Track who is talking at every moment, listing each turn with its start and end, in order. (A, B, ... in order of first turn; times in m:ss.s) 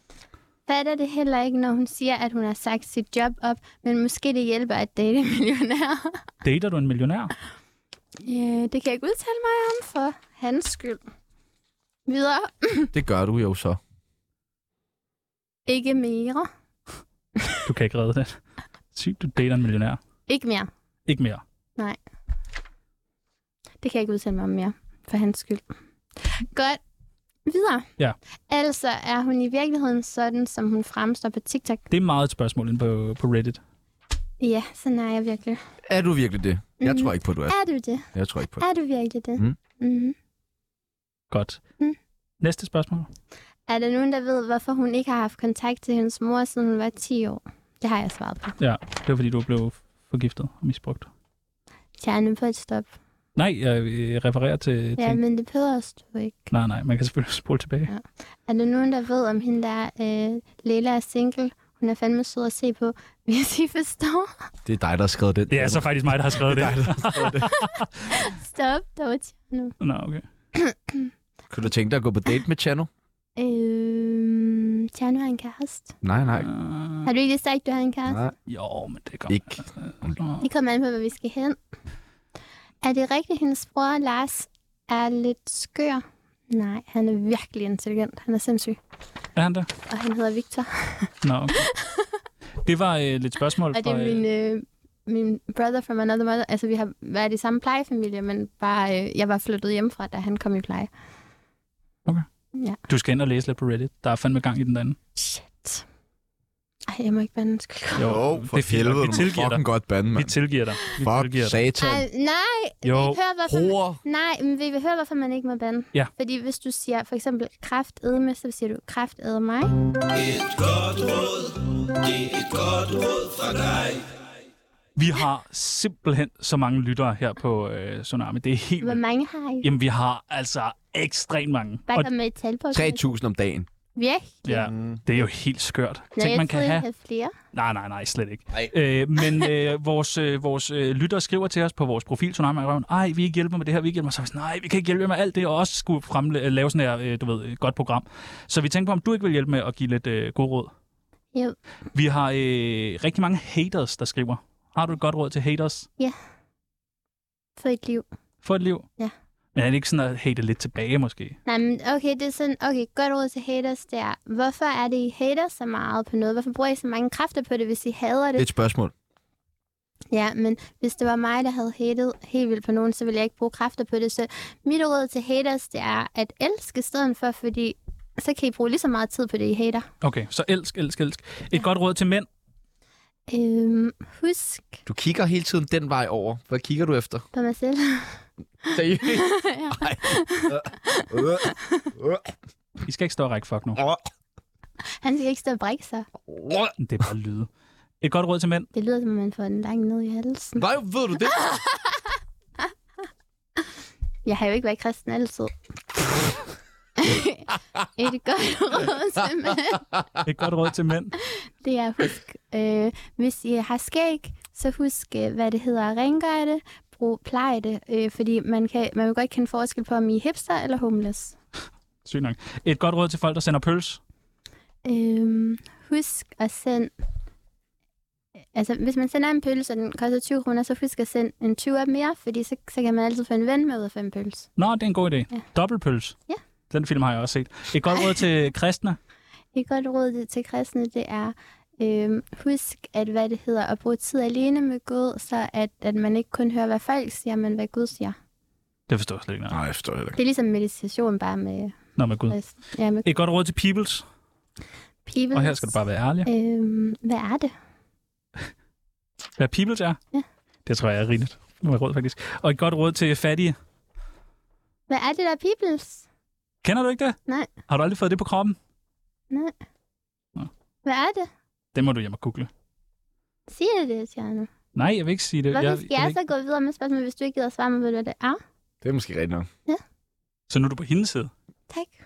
0:00.7-0:06.2 A
0:06.4-0:07.3 B
0:08.2-0:11.0 A
0:12.1-0:12.9 A
0:12.9-0:13.8 C
0:15.7-0:16.5 A
0:17.6-0:18.4 B
0:18.9-0:20.0 B
0:20.3-0:20.7 A
0:21.1-0:21.4 B
0:23.8-0:25.7 A
0:26.2-0:26.8 A
0:27.4-0:27.9 A
0:28.5-0:31.8 A
0:31.9-0:33.6 B
0:34.4-0:35.6 A
0:35.9-0:37.6 C
0:36.8-0:38.1 A
0:38.1-0:38.6 C
0:38.6-0:40.1 A
0:41.3-0:41.6 B
0:42.4-0:43.1 B
0:43.7-0:48.6 A
0:48.6-0:51.1 B
0:52.0-0:52.9 A
0:53.4-0:55.2 B
0:55.0-0:56.5 A
0:56.5-0:57.9 B
0:57.9-1:04.3 A
1:04.6-1:07.5 C
1:05.5-1:07.9 B
1:08.1-1:09.8 A
1:09.8-1:10.2 B
1:10.5-1:11.1 A
1:11.5-1:12.9 C
1:13.4-1:15.9 A
1:16.0-1:16.5 C
1:16.4-1:17.1 B
1:17.0-1:18.2 A
1:18.1-1:18.3 C
1:18.5-1:20.4 B
1:19.3-1:20.2 C
1:20.4-1:21.6 A
1:22.8-1:28.8 A
1:29.4-1:29.7 B
1:29.9-1:32.1 A
1:31.2-1:31.6 B
1:32.6-1:34.2 B
1:33.7-1:40.9 A
1:42.9-1:45.0 B
1:45.2-1:45.8 A
1:46.9-1:48.1 A
1:48.0-1:51.6 B
1:48.0-1:50.4 C
1:50.9-1:52.0 C
1:51.8-1:59.7 A
1:52.8-1:53.2 B
1:53.5-1:54.0 C
2:00.3-2:01.4 B
2:03.4-2:03.8 C
2:05.0-2:09.0 B
2:08.8-2:09.7 A
2:09.6-2:12.1 B
2:11.9-2:13.0 A
2:12.7-2:13.7 C
2:13.9-2:14.7 A
2:14.4-2:16.8 B
2:14.5-2:15.0 C
2:16.2-2:17.3 A
2:17.5-2:30.7 B
2:31.9-2:35.9 B
2:37.6-2:38.0 A
2:38.4-2:38.9 B
2:39.5-2:41.4 B
2:41.4-2:48.5 A
2:48.4-2:48.9 C
2:50.1-2:59.9 A
3:00.0-3:02.3 B
3:03.3-3:04.8 A
3:04.8-3:07.2 C
3:07.3-3:11.9 A
3:08.7-3:12.3 C
3:12.8-3:13.8 B
3:13.8-3:14.0 C
3:15.0-3:16.1 A
3:16.2-3:16.7 C
3:16.8-3:17.5 B
3:18.0-3:18.7 B
3:18.7-3:20.6 A
3:20.6-3:21.4 C
3:24.2-3:25.5 A
3:27.0-3:29.8 A
3:30.2-3:31.1 B
3:31.3-3:41.4 A
3:42.0-3:44.0 B
3:44.8-3:46.9 A
3:48.5-3:54.5 A
3:54.6-3:56.2 B
3:56.7-3:59.0 B
3:59.5-4:08.2 A
4:08.9-4:09.6 B
4:09.5-4:10.2 C
4:10.2-4:11.8 A
4:12.0-4:12.4 B
4:12.3-4:13.1 A
4:13.0-4:14.0 B
4:15.0-4:15.7 A
4:15.3-4:16.3 B
4:16.2-4:17.5 A
4:19.4-4:20.0 B
4:20.6-4:23.6 B
4:24.9-4:26.0 A
4:26.6-4:27.2 B
4:27.7-4:28.6 B
4:30.8-4:31.3 A
4:31.7-4:32.5 B
4:33.5-4:34.5 A
4:34.7-4:36.2 B
4:35.5-4:38.4 A
4:38.8-4:39.5 C
4:40.5-4:41.3 B
4:41.7-4:42.0 A